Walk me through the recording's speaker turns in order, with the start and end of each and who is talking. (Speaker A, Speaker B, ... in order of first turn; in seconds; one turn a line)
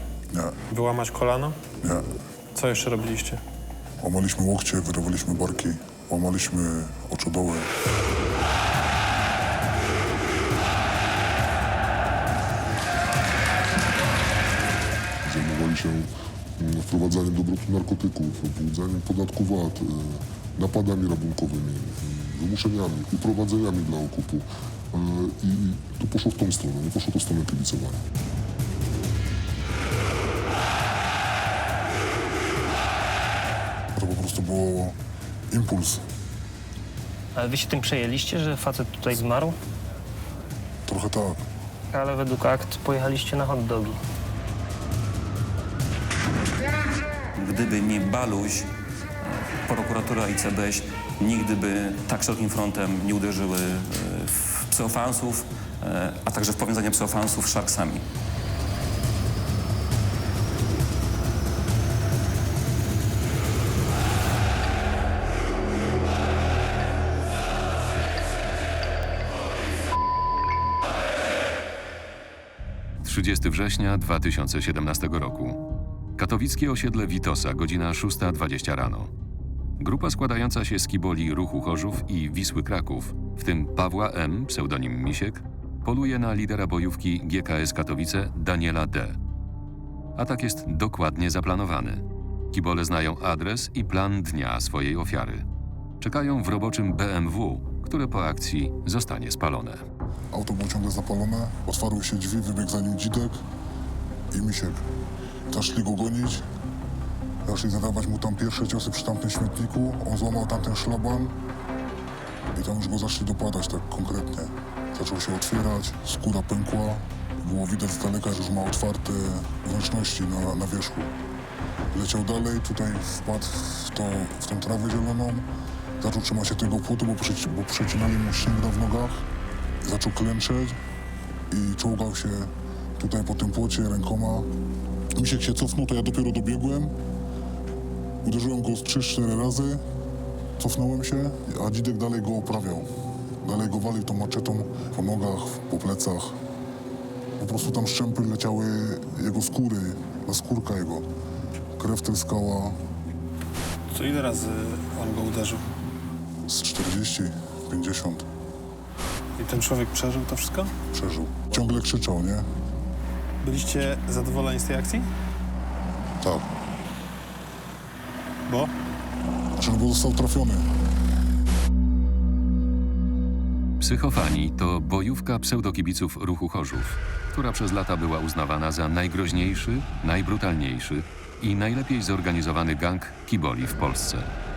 Speaker A: 0.7-1.6
Speaker A: 2.5-3.4
Speaker B: 4.0-7.7
Speaker C: 15.2-28.0
Speaker B: 34.0-35.0
Speaker B: 35.5-36.0
Speaker D: 37.4-39.5
Speaker B: 40.9-41.4
Speaker D: 41.9-44.0
Speaker E: 47.4-48.7
Speaker E: 49.2-58.1
Speaker F: 73.0-75.6
Speaker F: 76.2-79.1
Speaker F: 79.8-89.2
Speaker F: 90.2-95.5
Speaker F: 96.0-99.8
Speaker B: 100.3-103.4
Speaker B: 104.3-104.8
Speaker B: 105.5-106.5
Speaker B: 107.5-111.3
Speaker B: 112.5-121.1
Speaker B: 121.9-125.5
Speaker B: 126.0-129.3
Speaker B: 129.8-130.8
Speaker B: 131.5-134.5
Speaker B: 135.2-136.9
Speaker B: 138.2-139.8
Speaker B: 140.6-142.9
Speaker B: 143.4-146.4
Speaker B: 147.4-151.1
Speaker B: 151.8-152.8
Speaker A: 153.9-155.7
Speaker B: 156.5-158.3
Speaker A: 159.4-160.7
Speaker B: 160.9-162.5
Speaker A: 163.4-165.1
Speaker B: 166.2-166.5
Speaker A: 168.5-168.7
Speaker B: 169.6-170.7
Speaker F: 173.8-184.3